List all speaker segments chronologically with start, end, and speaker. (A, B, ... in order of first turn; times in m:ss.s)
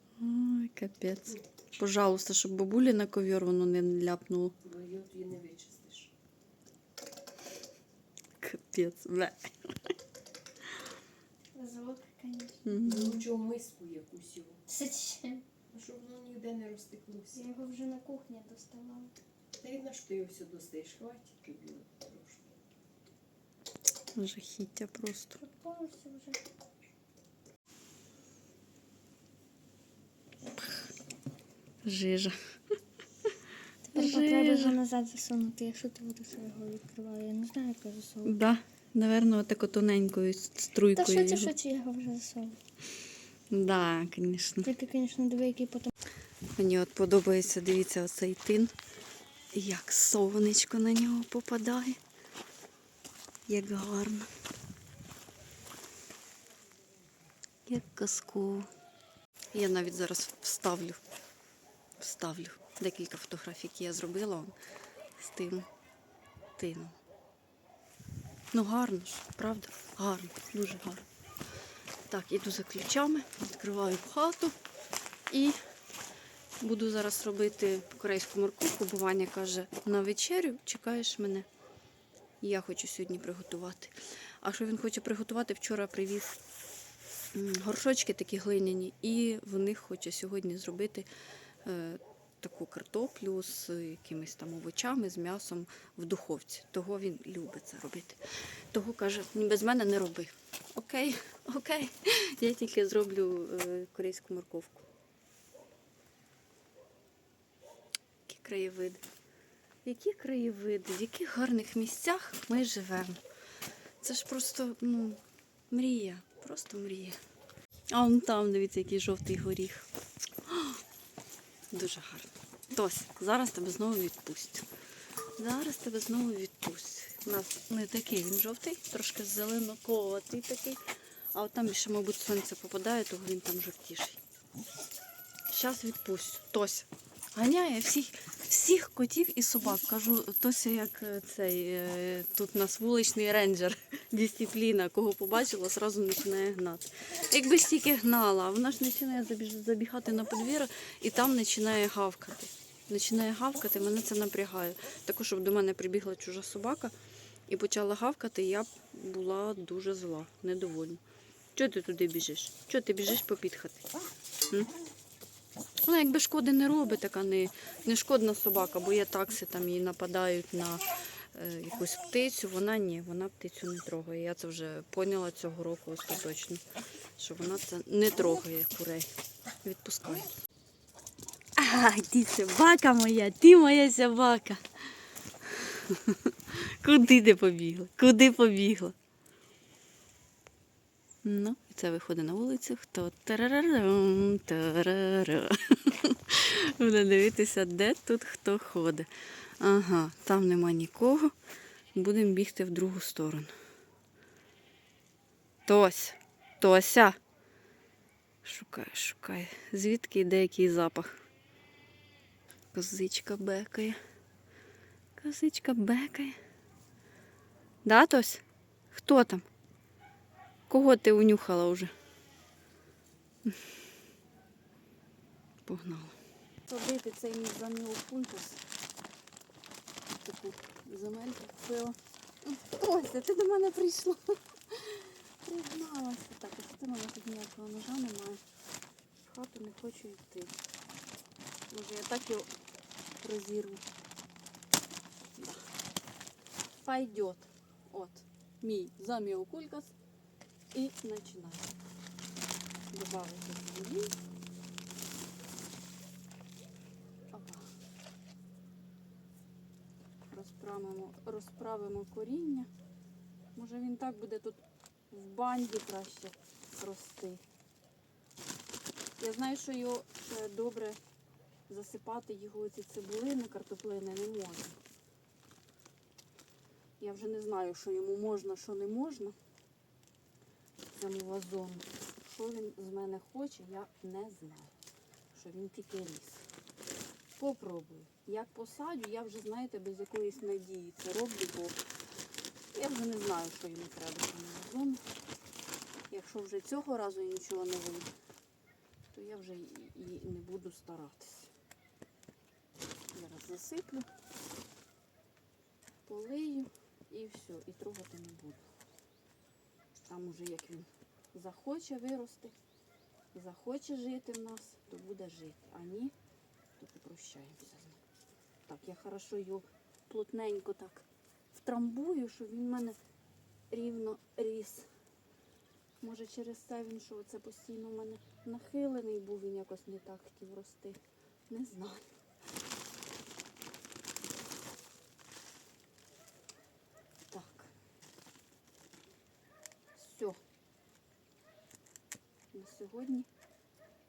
0:00.2-0:04.6 A
0:04.6-0:06.1 B
0:08.4-0:09.5 A
0:11.5-0:12.6 C
0:12.6-0:13.2 A
0:12.8-0:14.6 B
0:14.7-0:15.4 C
0:15.7-0:17.5 B
0:17.3-0:19.2 C
0:19.6-0:22.6 B
0:24.2-0:25.4 A
0:25.4-0:26.4 C
0:31.8-0:32.4 A
0:33.9-0:38.4 C
0:34.0-0:34.8 A
0:38.2-0:41.5 A
0:41.0-0:42.6 C
0:43.5-0:44.7 A
0:44.6-0:45.9 C
0:46.6-0:48.7 A
0:49.5-0:52.0 A
0:53.5-0:54.3 A
0:57.7-0:58.7 A
0:59.5-1:01.0 A
1:02.0-1:04.6 A
1:05.2-1:05.7 A
1:06.6-1:07.0 A
1:08.5-1:11.1 A
1:12.1-1:14.6 A
1:15.3-1:15.6 A
1:16.6-1:21.5 A
1:22.4-1:26.4 A
1:27.3-1:31.1 A
1:31.6-1:38.2 A
1:38.7-1:44.8 A
1:48.3-1:49.0 A
1:49.8-1:53.2 A
1:54.0-1:55.2 A
1:55.7-1:57.2 A
1:57.9-1:59.9 A
2:00.5-2:00.8 A
2:01.7-2:04.7 A
2:05.4-2:10.8 A
2:11.3-2:14.2 A
2:15.5-2:36.9 A
2:37.5-2:41.0 A
2:41.6-2:43.9 A
2:45.9-2:56.6 A
2:57.2-2:59.1 A
2:59.6-3:00.3 A
3:01.6-3:04.6 A
3:05.7-3:09.0 A
3:11.2-3:19.1 A
3:19.6-3:21.3 A
3:22.0-3:23.5 A
3:25.7-3:27.2 A
3:28.4-3:31.1 A
3:32.7-3:34.0 A
3:35.2-3:36.4 A
3:37.8-3:39.5 A
3:40.7-3:41.9 A
3:45.7-3:46.2 A
3:46.7-3:48.6 A
3:50.2-3:54.2 A
3:54.7-3:58.4 A
3:59.2-4:00.6 A
4:01.7-4:02.5 A
4:03.2-4:03.8 A
4:05.4-4:05.7 A
4:06.8-4:10.0 A
4:10.7-4:11.8 A
4:12.9-4:14.2 A
4:17.3-4:17.7 A
4:20.3-4:22.7 A
4:23.6-4:24.6 A
4:25.1-4:27.4 A
4:29.2-4:31.0 A
4:31.7-4:34.8 A
4:37.0-4:39.4 A
4:40.9-4:44.8 A
4:45.3-4:46.5 A
4:47.4-4:51.8 A
4:52.7-4:55.0 A
4:56.1-4:58.1 A
4:59.1-5:01.5 A
5:03.1-5:04.1 A
5:06.1-5:08.6 A
5:10.1-5:12.6 A
5:13.3-5:16.1 A
5:16.8-5:18.0 A
5:18.7-5:23.0 A
5:23.7-5:24.9 A
5:26.0-5:32.1 A
5:37.3-5:37.7 A
5:40.0-5:40.4 A
5:42.5-5:43.3 A